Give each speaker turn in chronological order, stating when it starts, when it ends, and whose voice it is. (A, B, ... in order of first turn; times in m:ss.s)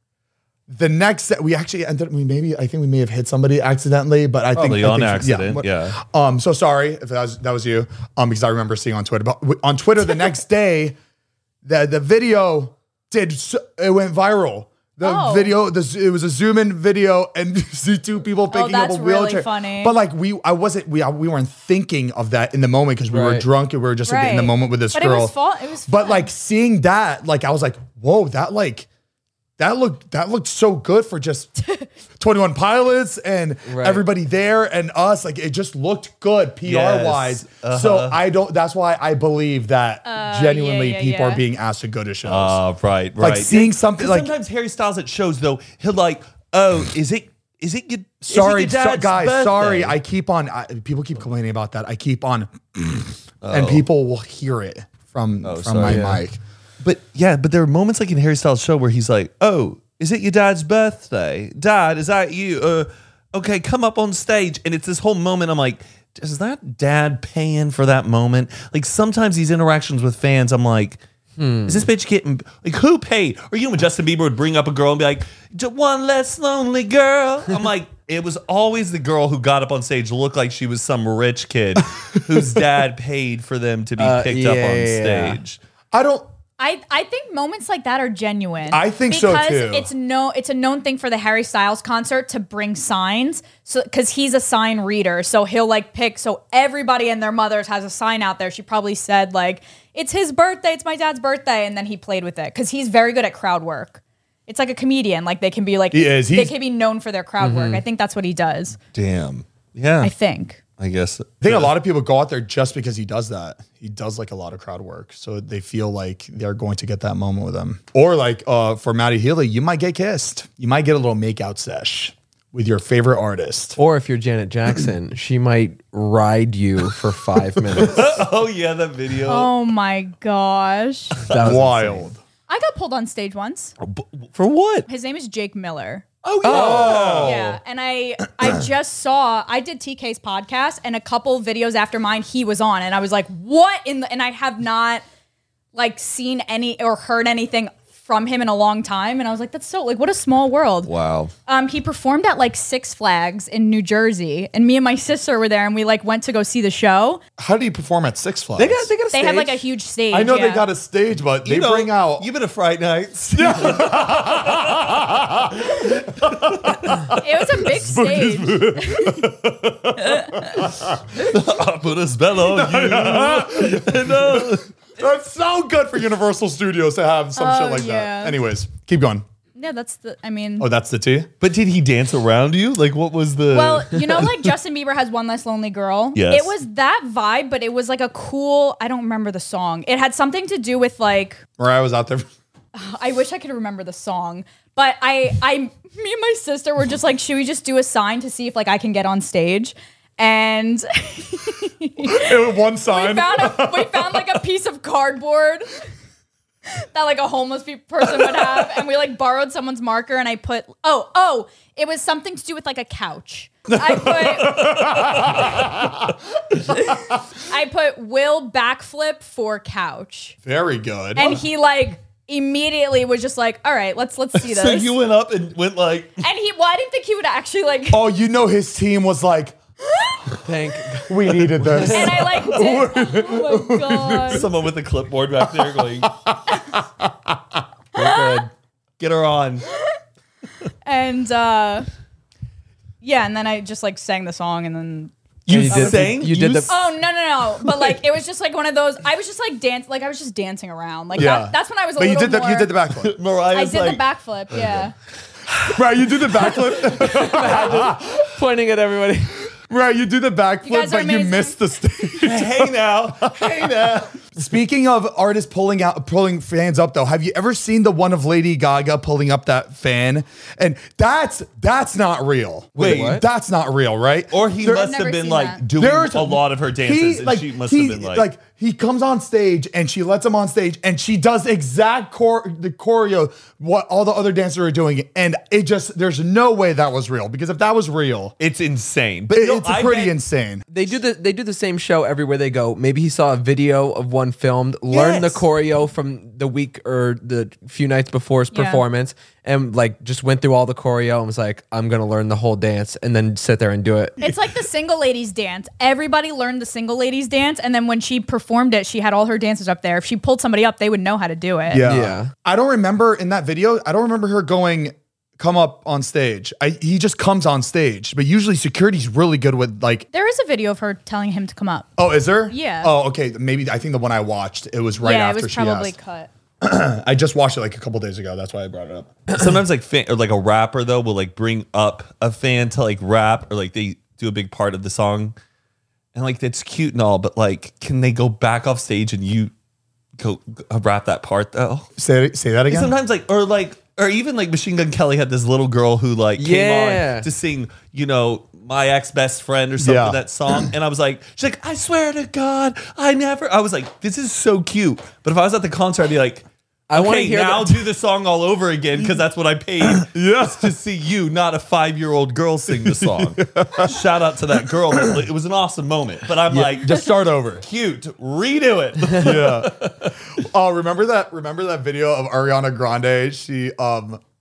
0:00.7-0:11.0 A
0:04.5-0:06.0 B
0:11.6-0:25.3 A
0:15.0-0:15.5 C
0:18.5-0:19.9 C
0:23.1-0:23.5 D
0:24.0-0:26.3 C
0:25.9-0:28.9 A
0:29.6-0:31.5 A
0:31.6-0:31.9 C
0:32.2-0:42.6 A
0:33.7-0:34.0 D
0:36.6-0:38.2 B
0:40.1-0:41.4 C
0:42.2-0:50.0 B
0:43.2-0:44.3 A
0:48.2-0:56.4 A
0:53.4-0:53.8 B
0:55.4-0:56.2 B
0:55.8-0:56.2 D
0:56.8-1:11.0 B
1:11.4-1:11.8 D
1:11.6-1:25.6 B
1:24.0-1:25.4 D
1:25.9-1:26.3 A
1:26.6-1:48.8 C
1:28.7-1:29.9 A
1:45.9-1:46.6 A
1:47.4-1:47.8 D
1:48.9-1:50.1 B
1:50.0-1:50.6 C
1:50.8-1:51.7 B
1:51.4-2:03.8 A
2:03.8-2:08.2 D
2:07.8-2:09.5 B
2:09.3-2:11.2 C
2:11.2-2:12.1 D
2:11.3-2:11.6 B
2:11.3-2:12.2 A
2:12.5-2:13.7 C
2:13.8-2:14.9 B
2:14.9-2:16.0 C
2:16.2-2:17.4 B
2:16.4-2:17.0 D
2:16.4-2:17.6 A
2:16.6-2:25.0 C
2:25.7-2:30.9 C
2:30.9-2:31.3 B
2:31.5-2:37.2 C
2:37.4-2:38.9 A
2:38.6-2:39.6 D
2:39.1-2:40.7 C
2:40.1-2:42.3 A
2:41.4-2:45.0 B
2:43.3-2:51.2 A
2:46.2-2:46.9 B
2:47.2-2:49.3 C
2:50.0-2:50.4 C
2:51.2-2:54.7 B
2:52.4-2:59.2 A
2:57.4-2:58.4 C
2:59.6-3:00.7 C
3:00.6-3:01.3 A
3:01.4-3:04.3 B
3:03.5-3:11.4 C
3:06.2-3:06.6 B
3:11.6-3:12.3 A
3:12.7-3:25.7 C
3:22.0-3:24.4 A
3:26.7-3:35.5 C
3:33.7-3:37.2 A
3:36.7-3:40.4 C
3:40.4-3:41.4 A
3:41.2-3:44.9 C
3:44.4-3:46.2 B
3:46.2-3:48.1 C
3:47.9-3:49.6 A
3:50.1-3:50.4 C
3:50.4-3:52.3 D
3:51.1-3:54.5 A
3:51.8-3:54.5 C
3:54.3-3:56.1 B
3:55.4-3:57.6 A
3:58.0-3:59.7 B
3:58.0-3:58.4 C
4:00.8-4:01.9 C
4:03.0-4:05.1 C
4:05.5-4:06.7 B
4:05.5-4:06.7 D
4:05.7-4:06.0 C
4:06.7-4:12.7 C
4:11.1-4:13.2 A
4:13.0-4:14.0 B
4:13.5-4:14.9 C
4:15.7-4:18.3 A
4:16.9-4:19.4 D
4:19.7-4:34.3 A
4:20.6-4:21.6 C
4:22.2-4:24.2 B
4:32.8-4:33.2 B
4:32.8-4:33.2 D
4:34.3-4:38.2 B
4:34.6-4:35.6 C
4:35.7-4:48.4 A
4:48.4-4:50.2 B
4:49.3-4:50.6 A
4:50.7-5:04.2 D
4:54.9-4:55.5 B
4:58.5-4:58.8 C
5:04.2-5:11.9 C
5:11.7-5:20.1 A
5:11.8-5:12.3 D
5:20.1-5:21.9 C
5:22.0-5:25.9 A
5:22.5-5:22.9 C
5:25.0-5:26.3 C
5:26.6-5:29.1 A
5:29.3-5:35.4 B
5:36.2-5:39.5 B
5:40.2-5:41.9 B
5:42.0-5:42.9 A
5:42.7-6:09.9 B
5:46.4-5:47.3 D
5:49.8-5:50.6 A
5:56.9-5:57.9 D
5:59.8-6:00.8 A
6:02.7-6:04.0 A
6:04.9-6:05.2 A
6:06.5-6:07.6 A
6:09.2-6:14.2 A